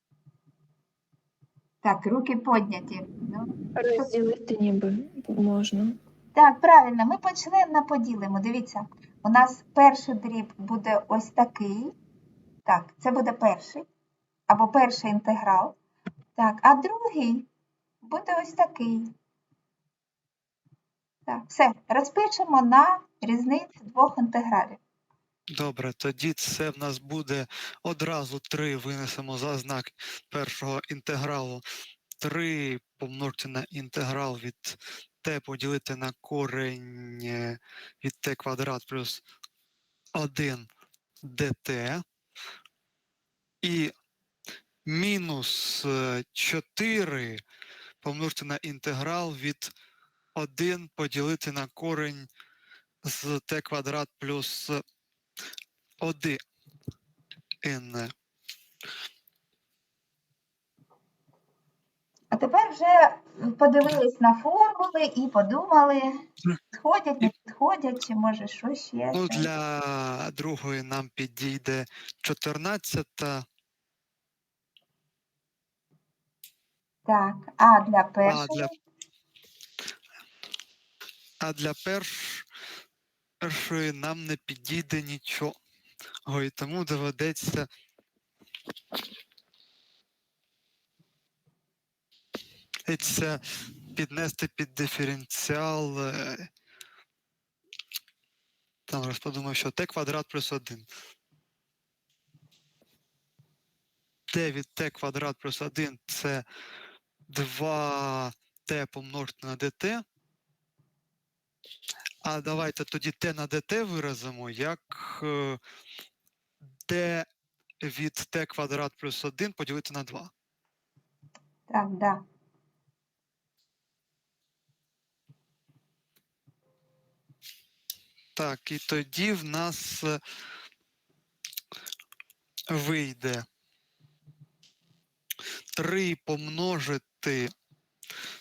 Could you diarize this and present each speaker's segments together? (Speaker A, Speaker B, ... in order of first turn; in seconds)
Speaker A: 1.8-4.1, 6.3-11.9, 12.7-13.9, 14.5-15.8, 16.4-17.5, 18.0-19.1, 21.3-24.8, 62.3-69.5, 77.1-78.7, 121.7-122.2
Speaker B: 3.8-6.0
Speaker C: 25.5-31.6, 32.2-39.2, 40.1-40.7, 41.2-42.0, 43.6-43.9, 44.9-47.4, 48.0-49.7, 50.4-52.3, 53.0-54.8, 56.0-56.4, 57.6-58.1, 69.1-73.5, 78.3-78.7, 81.4-82.5, 83.4-85.6, 86.3-87.7, 92.9-93.4, 93.9-96.5, 98.9-100.9, 104.3-106.5, 107.3-110.0, 112.2-115.6, 116.9-117.3, 117.8-120.3, 128.4-130.2, 132.7-133.5, 135.8-137.5